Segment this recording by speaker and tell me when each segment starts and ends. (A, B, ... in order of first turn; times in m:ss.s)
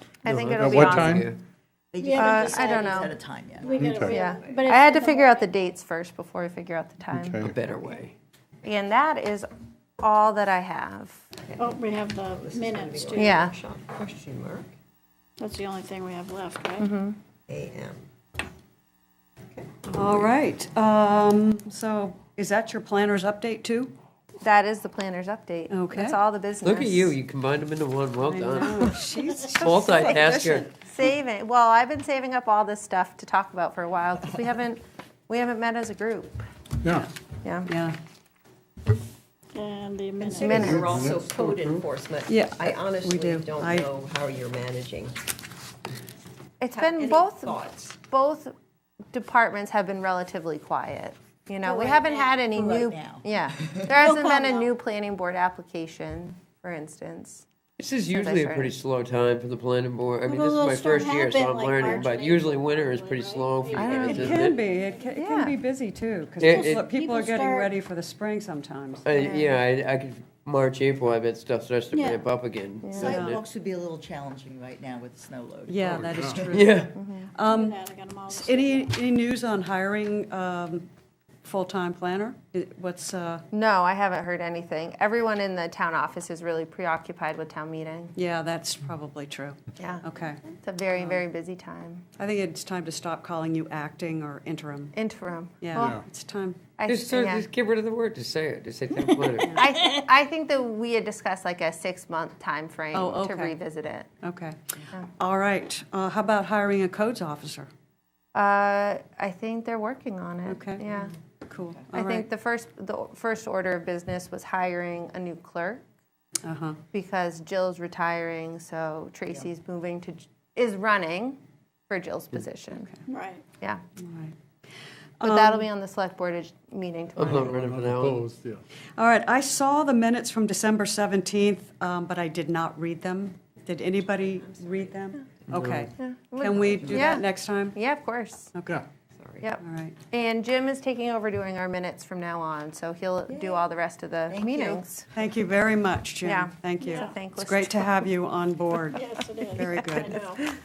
0:00.2-0:01.4 A
0:00.2-0:01.4 B
0:00.4-0:01.4 C
0:01.9-0:03.8 D
0:02.0-0:05.5 E
0:02.1-0:03.1 A
0:03.8-0:04.3 B
0:04.0-0:07.4 A
0:07.1-0:07.7 B
0:07.5-0:08.1 C
0:08.6-0:09.5 A
0:10.0-0:11.3 A
0:11.6-0:13.5 E
0:12.4-0:14.6 F
0:13.0-0:14.5 B
0:13.1-0:13.6 A
0:15.4-0:16.9 E
0:16.8-0:17.2 A
0:17.5-0:18.0 F
0:19.9-0:23.9 G
0:24.4-0:27.1 A
0:25.7-0:26.2 G
0:26.6-0:28.7 C
0:28.2-0:30.7 G
0:29.6-0:30.6 C
0:30.8-0:36.4 A
0:36.8-0:37.1 B
0:37.4-0:37.7 A
0:37.7-0:38.0 G
0:39.5-0:41.0 E
0:40.4-0:41.4 B
0:40.4-0:45.1 F
0:42.3-0:43.9 G
0:43.0-0:43.9 B
0:46.6-0:48.5 A
0:46.8-0:47.7 F
0:47.0-0:47.7 B
0:49.1-0:57.4 A
0:51.6-0:53.9 D
0:54.0-0:54.7 E
0:57.8-1:04.6 C
0:58.1-0:58.7 A
1:00.2-1:05.0 E
1:01.8-1:02.2 B
1:03.7-1:04.3 B
1:03.7-1:04.3 A
1:04.0-1:09.1 G
1:05.1-1:05.5 A
1:06.4-1:06.8 C
1:06.4-1:07.7 E
1:09.0-1:13.4 C
1:09.1-1:09.6 A
1:11.9-1:12.2 E
1:12.8-1:13.2 A
1:12.9-1:16.6 D
1:13.0-1:13.4 G
1:15.7-1:17.8 G
1:15.9-1:16.4 B
1:16.6-1:17.0 C
1:16.9-1:17.3 A
1:17.4-1:18.9 E
1:18.3-1:20.9 G
1:21.4-1:23.4 G
1:23.5-1:28.1 A
1:28.1-1:30.4 G
1:29.8-1:32.0 A
1:31.0-1:31.2 G
1:32.2-1:35.0 G
1:34.9-1:36.0 A
1:35.6-1:36.6 G
1:36.8-1:37.5 A
1:36.9-1:39.5 C
1:39.5-1:44.1 A
1:42.9-1:43.6 G
1:44.2-1:47.7 G
1:48.3-1:51.1 A
1:50.5-1:51.0 G
1:51.5-1:52.3 G
1:51.9-1:55.8 A
1:56.4-1:56.8 G
1:56.9-2:01.4 A
2:01.9-2:02.9 A
2:03.1-2:03.4 E
2:04.0-2:04.3 G
2:05.2-2:05.7 G
2:05.2-2:07.7 A
2:07.2-2:08.3 C
2:07.2-2:08.6 B
2:09.0-2:17.8 G
2:15.5-2:15.8 C
2:16.0-2:18.5 A
2:18.5-2:18.8 G
2:19.4-2:25.1 A
2:19.6-2:20.0 G
2:23.3-2:23.6 D
2:24.3-2:24.8 D
2:25.1-2:30.2 G
2:26.2-2:28.1 A
2:26.9-2:27.1 E
2:28.9-2:30.4 E